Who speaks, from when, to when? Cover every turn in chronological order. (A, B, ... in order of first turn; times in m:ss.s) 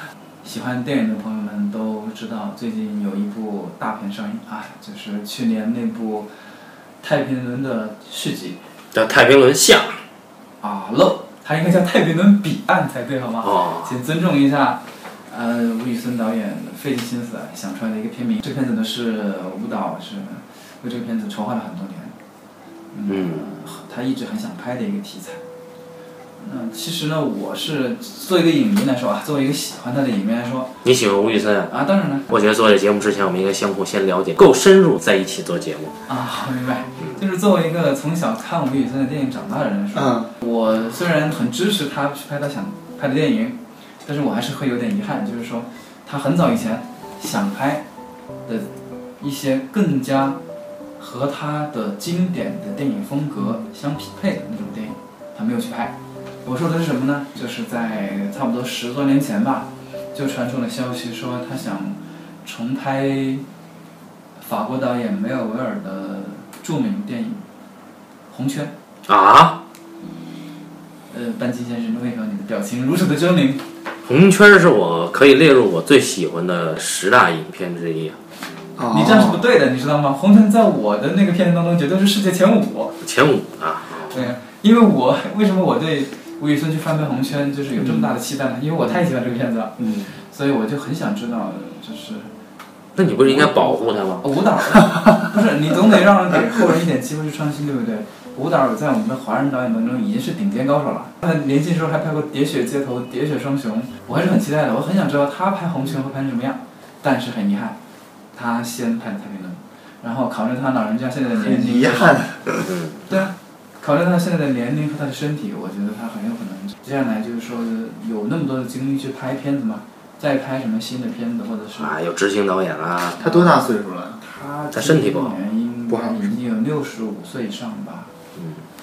0:00.4-0:06.3 A
0:07.0-0:08.6 A
0:08.9-0:10.0 B
0:10.6-0:22.2 A
0:13.4-0:13.9 B
0:22.9-0:25.4 A
0:23.1-0:23.5 B
0:26.4-0:30.8 A
0:30.8-0:31.7 B
0:31.7-0:32.3 A
0:32.3-0:35.9 B
0:36.1-0:47.8 A
0:39.9-0:40.3 C
0:49.2-0:50.4 A
0:51.0-1:03.4 A
1:04.4-1:07.4 A
1:08.3-1:08.7 A
1:09.1-1:09.6 B
1:11.1-1:13.6 A
1:14.0-1:18.2 B
1:18.8-1:19.5 C
1:18.9-1:23.0 A
1:23.0-1:24.2 B
1:24.1-1:32.3 A
1:27.8-1:28.1 C
1:29.8-1:30.1 C
1:33.0-1:34.2 B
1:33.2-1:47.8 A
1:48.3-1:52.3 A
1:51.4-1:52.7 C
1:52.6-1:53.0 B
1:53.1-2:01.9 A
2:01.8-2:03.2 B
2:03.2-2:04.2 C
2:03.2-2:03.6 A
2:04.2-2:08.1 A
2:04.7-2:05.4 B
2:05.9-2:06.3 C
2:08.4-2:08.6 B